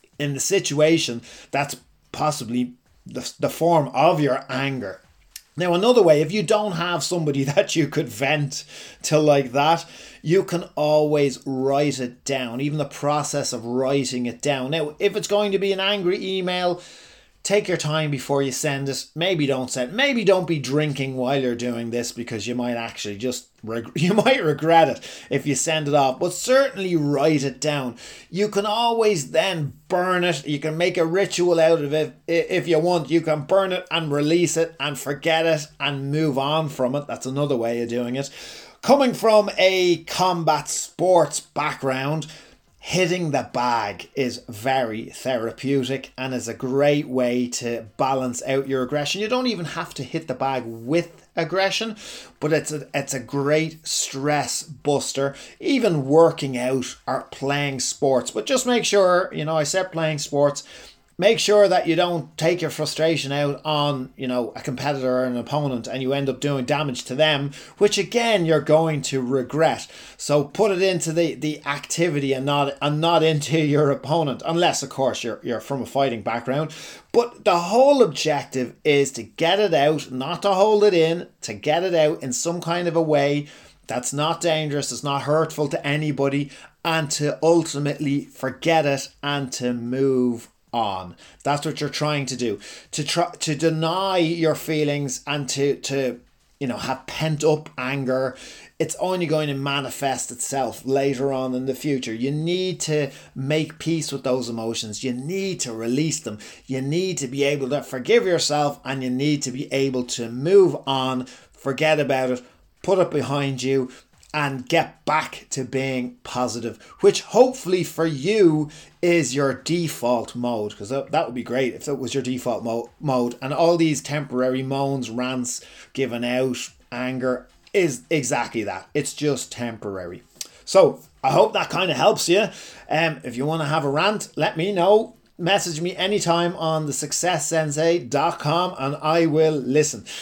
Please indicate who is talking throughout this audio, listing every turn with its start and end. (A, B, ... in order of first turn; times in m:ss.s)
0:00.2-0:05.0 A
0:05.6-0:16.8 A
0:17.4-0:38.3 A
0:38.8-0:42.3 A
0:42.8-1:00.6 A
1:01.2-2:20.0 A